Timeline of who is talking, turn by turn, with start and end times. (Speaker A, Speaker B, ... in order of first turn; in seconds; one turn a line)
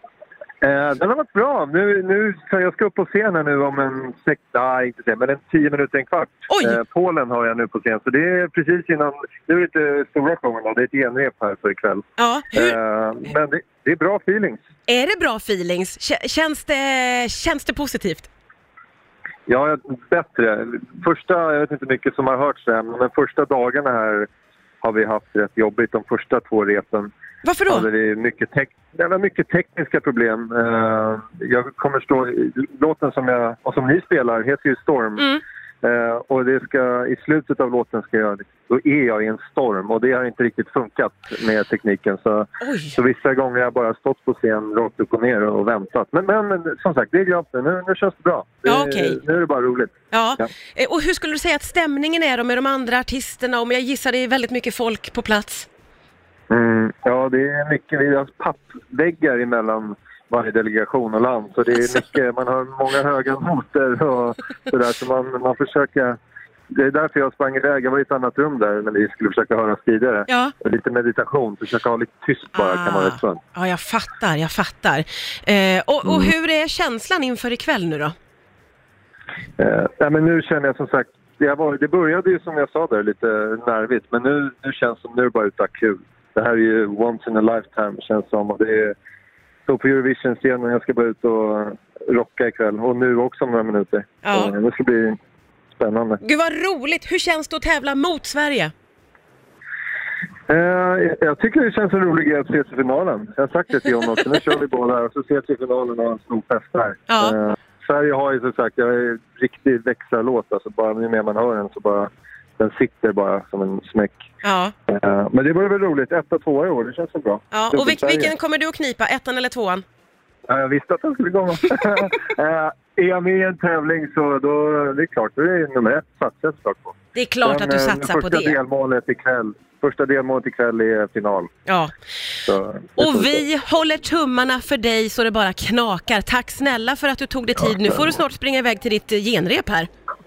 Speaker A: 0.6-14.6
Speaker B: 6.5-6.8
Speaker B: 12.2-12.8
Speaker B: 14.9-18.3
Speaker A: 19.5-24.3
Speaker A: 24.8-27.1
Speaker B: 27.4-27.9
Speaker A: 27.7-50.4
Speaker B: 42.6-42.9
Speaker B: 48.6-49.2
Speaker B: 50.1-55.7
Speaker A: 56.5-66.2
Speaker A: 66.7-73.4
Speaker B: 70.3-70.5
Speaker B: 72.5-78.1
Speaker A: 79.6-88.9
Speaker A: 89.7-95.2
Speaker B: 94.2-94.5
Speaker A: 95.8-96.2
Speaker B: 96.2-98.7
Speaker A: 100.5-114.2
Speaker B: 107.1-107.3
Speaker B: 114.4-114.7
Speaker A: 114.9-118.3
Speaker B: 117.5-119.8
Speaker A: 120.5-131.5
Speaker B: 127.1-128.6
Speaker B: 131.7-131.9
Speaker A: 132.4-133.4
Speaker B: 133.0-139.9